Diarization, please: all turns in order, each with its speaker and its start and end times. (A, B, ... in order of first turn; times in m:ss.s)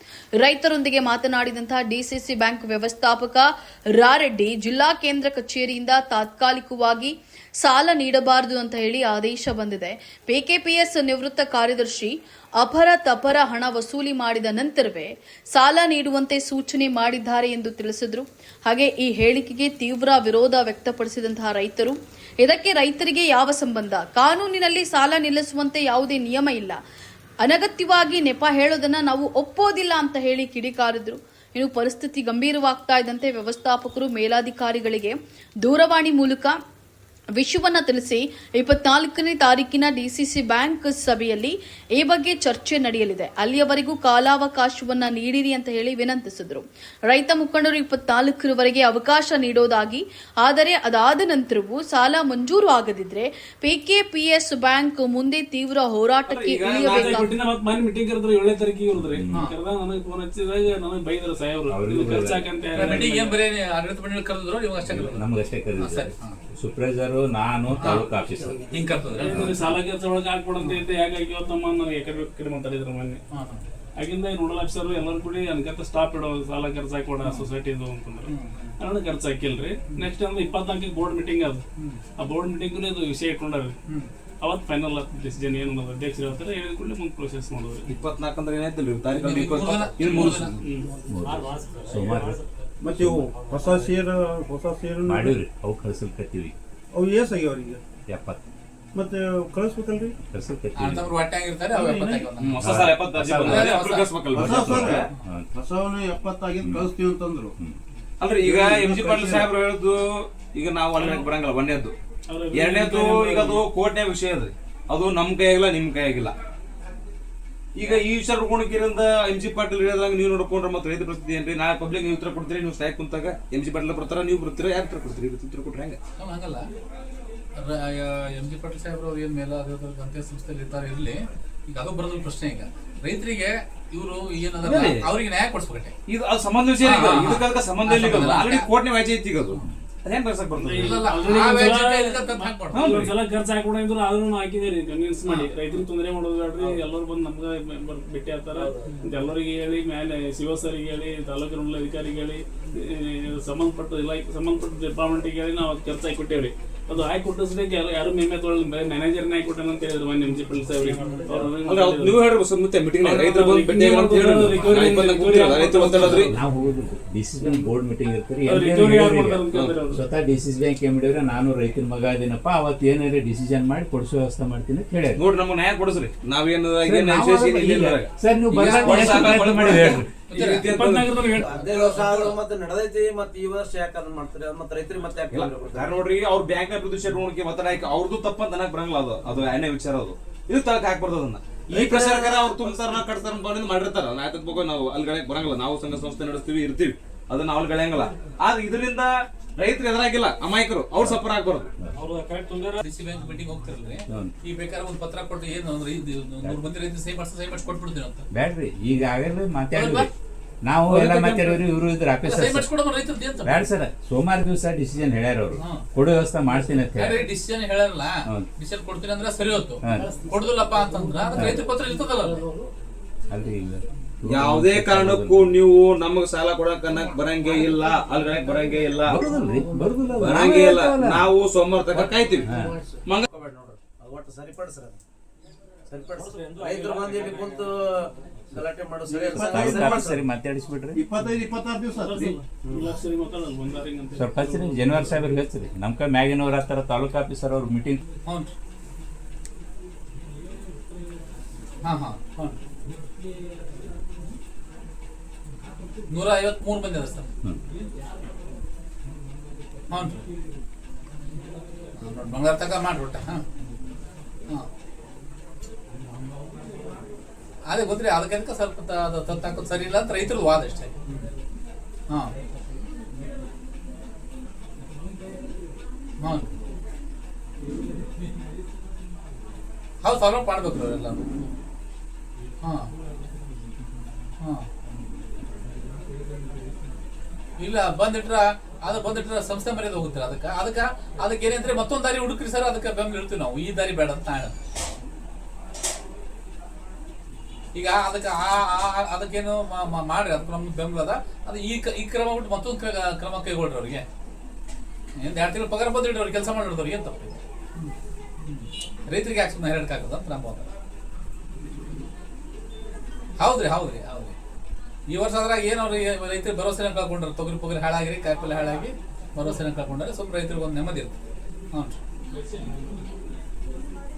0:00.4-0:26.8 A
0:27.4-0:36.6 A
0:37.4-0:57.3 A
0:56.3-0:57.3 B
0:57.0-1:03.4 C
0:59.0-0:59.5 D
1:01.7-1:03.0 D
1:02.7-1:05.2 E
1:04.8-1:08.7 D
1:05.8-1:06.4 E
1:07.8-1:08.1 E
1:08.7-1:09.7 E
1:09.1-1:13.2 C
1:09.3-1:09.6 D
1:13.3-1:13.6 E
1:14.0-1:21.6 C
1:18.3-1:18.7 E
1:22.2-1:23.8 C
1:24.4-1:27.9 C
1:27.9-1:30.6 B
1:29.1-1:30.5 E
1:30.6-1:32.7 C
1:31.1-1:32.4 D
1:32.8-1:35.4 F
1:33.0-1:33.3 D
1:33.3-1:33.9 C
1:35.1-1:36.5 D
1:36.9-1:37.8 F
1:38.1-1:38.4 D
1:38.9-1:40.2 F
1:40.2-1:41.1 D
1:40.8-1:42.6 E
1:41.7-1:42.2 F
1:42.4-1:45.1 B
1:42.6-1:43.8 D
1:43.4-1:44.5 E
1:44.3-1:47.5 F
1:44.4-1:45.5 D
1:46.6-1:46.9 D
1:48.2-1:52.0 B
1:48.4-1:49.5 F
1:51.0-1:51.2 C
1:52.3-1:53.6 C
1:52.5-1:56.4 B
1:57.8-2:06.0 B
2:06.2-2:06.7 E
2:07.6-2:15.9 E
2:14.6-2:15.1 B
2:16.1-2:19.5 B
2:16.8-2:18.7 E
2:17.4-2:18.4 G
2:20.0-2:21.0 B
2:20.6-2:42.2 C
2:20.8-2:22.8 E
2:22.7-2:23.1 B
2:25.3-2:25.8 E
2:40.3-2:41.4 E
2:41.6-2:46.3 B
2:43.0-2:46.4 C
2:44.6-2:44.8 E
2:44.7-2:45.0 G
2:46.0-2:55.2 D
2:47.4-2:47.7 C
2:48.4-2:50.0 C
2:55.2-3:01.2 B
2:56.8-3:00.1 D
2:58.5-3:00.7 E
3:00.7-3:01.6 C
3:01.3-3:06.1 G
3:01.4-3:02.4 E
3:05.3-3:21.7 B
3:11.7-3:13.1 G
3:22.0-3:22.8 C
3:22.8-3:28.2 E
3:28.3-3:30.1 D
3:29.7-3:30.1 E
3:30.7-3:32.7 D
3:30.9-3:31.6 C
3:32.2-3:33.7 E
3:33.4-3:37.3 D
3:35.6-3:35.8 E
3:37.0-3:42.4 E
3:39.8-3:40.1 D
3:41.4-3:41.6 D
3:43.3-3:45.6 D
3:44.3-3:49.2 B
3:48.3-3:48.6 G
3:49.1-3:51.2 D
3:50.2-3:52.5 B
3:51.9-3:52.6 G
3:52.5-3:52.8 D
3:53.2-3:55.0 G
3:55.9-4:00.2 G
3:56.2-3:57.7 C
3:59.1-4:01.0 D
3:59.2-3:59.8 F
4:01.0-4:02.3 F
4:02.0-4:05.3 C
4:02.6-4:02.9 G
4:04.2-4:08.0 D
4:08.3-4:08.5 E
4:11.8-4:12.6 E
4:16.1-4:17.4 E
4:19.9-4:20.2 E
4:22.0-4:23.4 E
4:27.7-4:31.3 E
4:36.2-4:36.4 E
4:40.0-4:41.3 E
4:42.6-4:42.9 E
4:44.4-4:44.7 E
4:47.6-4:54.5 E
4:57.8-5:04.0 E
5:05.2-5:10.7 E
5:13.4-5:14.4 E
5:15.1-5:21.2 E
5:21.7-5:22.0 E